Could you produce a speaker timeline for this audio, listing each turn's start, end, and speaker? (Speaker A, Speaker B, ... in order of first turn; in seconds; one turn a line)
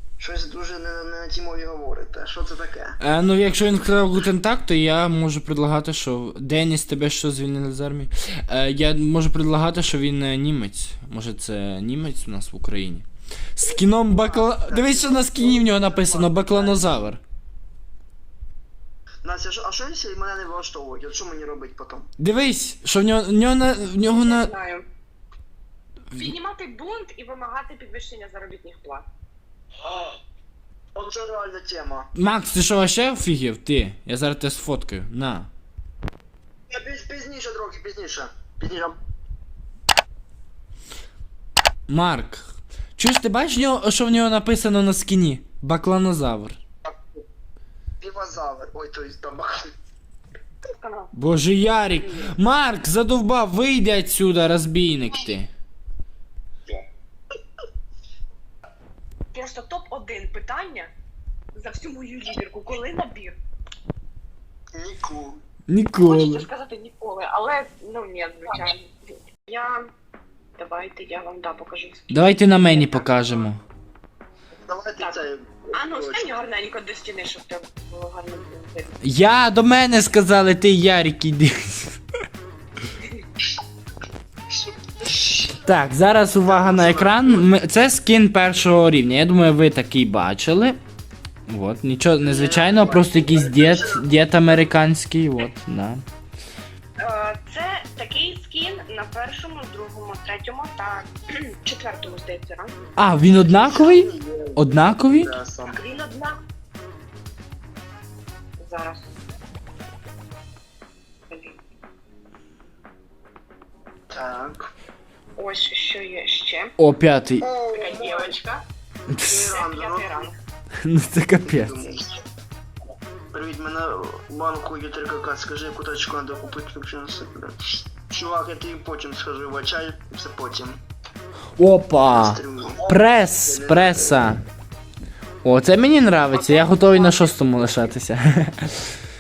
Speaker A: 0.2-3.0
Speaker B: 3.0-17.2
Speaker A: 13.7-17.1
Speaker A: 19.2-22.1
Speaker B: 22.2-24.5
Speaker C: 24.1-24.9
Speaker C: 26.1-29.1
Speaker A: 29.8-30.2
Speaker A: 30.9-32.1
Speaker B: 32.1-35.5
Speaker A: 36.7-39.0
Speaker B: 41.9-46.6
Speaker A: 46.9-47.2
Speaker A: 48.0-49.7
Speaker C: 50.6-51.1
Speaker B: 51.1-55.5
Speaker C: 59.3-60.9
Speaker C: 61.5-63.4
Speaker A: 64.7-65.4
Speaker B: 65.7-66.4
Speaker C: 66.0-68.9
Speaker C: 69.5-69.9
Speaker C: 70.6-73.5
Speaker B: 72.1-73.6
Speaker A: 74.7-76.4
Speaker C: 75.0-79.0
Speaker B: 79.0-82.0
Speaker A: 84.5-85.6
Speaker B: 85.6-90.8
Speaker A: 86.4-87.5
Speaker B: 91.5-96.0
Speaker A: 92.2-94.6
Speaker C: 97.0-102.9
Speaker B: 103.0-105.4
Speaker A: 103.4-105.8
Speaker C: 105.7-106.4
Speaker C: 108.6-109.1
Speaker C: 111.3-111.6
Speaker A: 114.1-114.7
Speaker C: 115.4-116.7
Speaker B: 116.8-117.5
Speaker A: 117.4-118.3
Speaker C: 117.7-118.6
Speaker A: 119.1-120.2
Speaker C: 119.2-120.3
Speaker B: 120.8-121.7
Speaker A: 121.4-122.2
Speaker A: 123.3-130.8
Speaker B: 131.6-134.4
Speaker A: 132.1-134.2
Speaker B: 135.4-138.9
Speaker C: 136.3-137.3